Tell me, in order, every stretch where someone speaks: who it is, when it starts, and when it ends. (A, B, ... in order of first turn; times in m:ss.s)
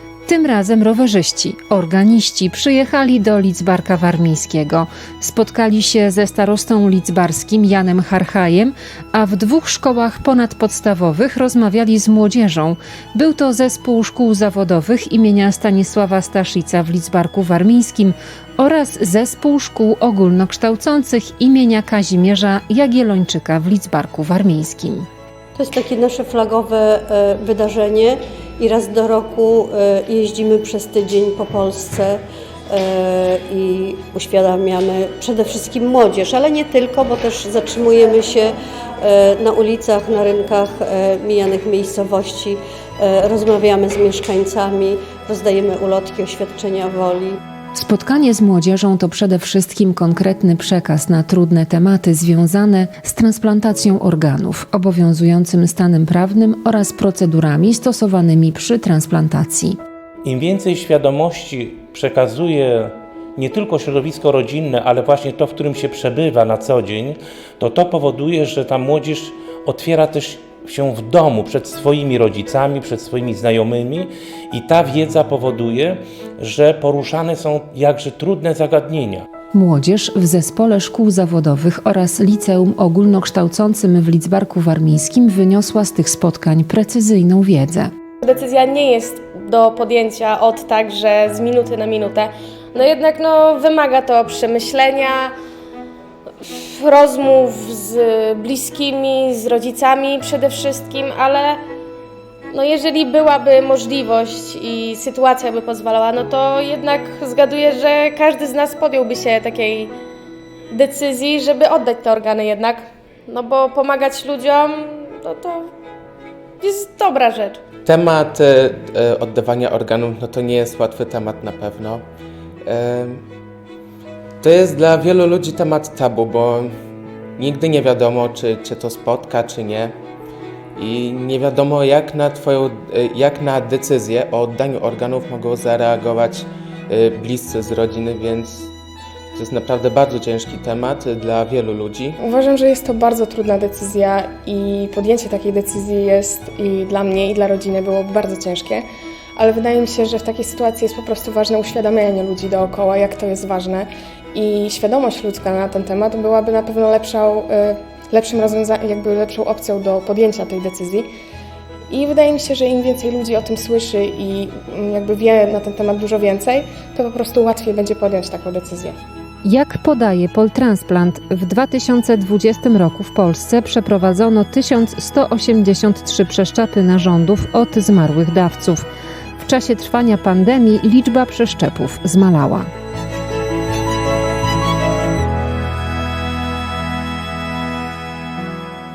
0:00.2-0:25.1 A
0:25.6-0:47.4 B
0:47.7-0:59.8 A
1:00.2-1:19.2 C
1:19.5-1:27.9 A
1:28.2-1:35.3 D
1:36.4-1:41.6 D
1:42.5-1:49.9 D
1:50.7-1:55.7 D
1:56.6-1:57.6 D
1:57.8-2:02.0 E
2:02.6-2:03.2 E
2:04.4-2:06.7 E
2:07.4-2:09.9 E
2:10.8-2:18.7 E
2:19.3-2:22.2 E
2:22.2-2:28.8 F
2:29.4-2:41.1 F
2:41.9-2:48.9 F
2:49.4-2:58.8 A
2:59.4-3:02.7 A